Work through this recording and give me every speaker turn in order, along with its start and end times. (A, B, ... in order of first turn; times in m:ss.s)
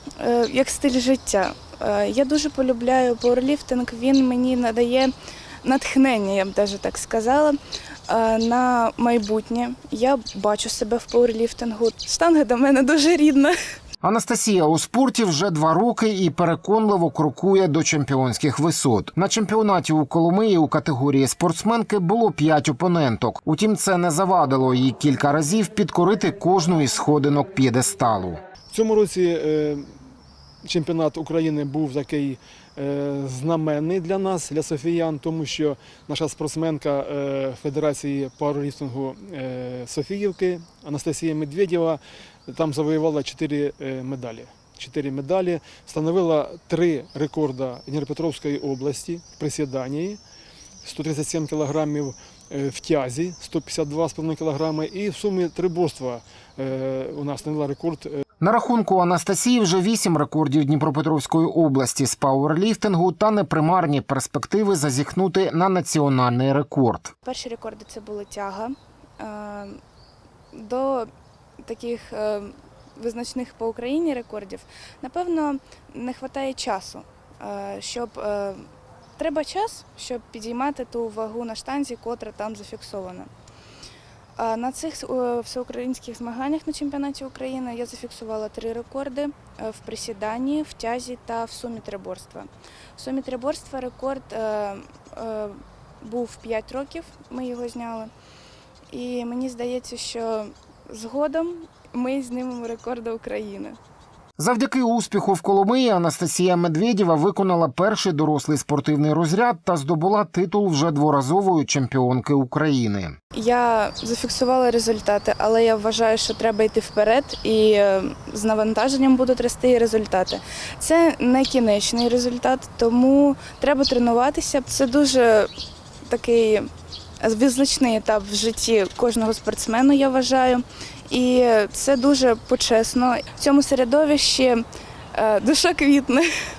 0:00.2-0:05.1 A
0:05.6-0:07.6 A
0:08.1-0:13.5 A
0:14.0-0:28.4 B
0:28.7-0:29.9 C
0:30.6-0:50.2 C
0:50.8-0:58.2 C
0:58.4-1:07.1 B
1:07.2-1:09.8 A
1:10.5-1:11.1 A
1:11.6-1:23.3 A
1:24.4-1:38.1 A
1:38.9-1:43.8 A
1:44.4-1:53.2 B
1:53.3-2:05.5 A
2:06.1-2:06.7 A
2:07.2-2:16.3 A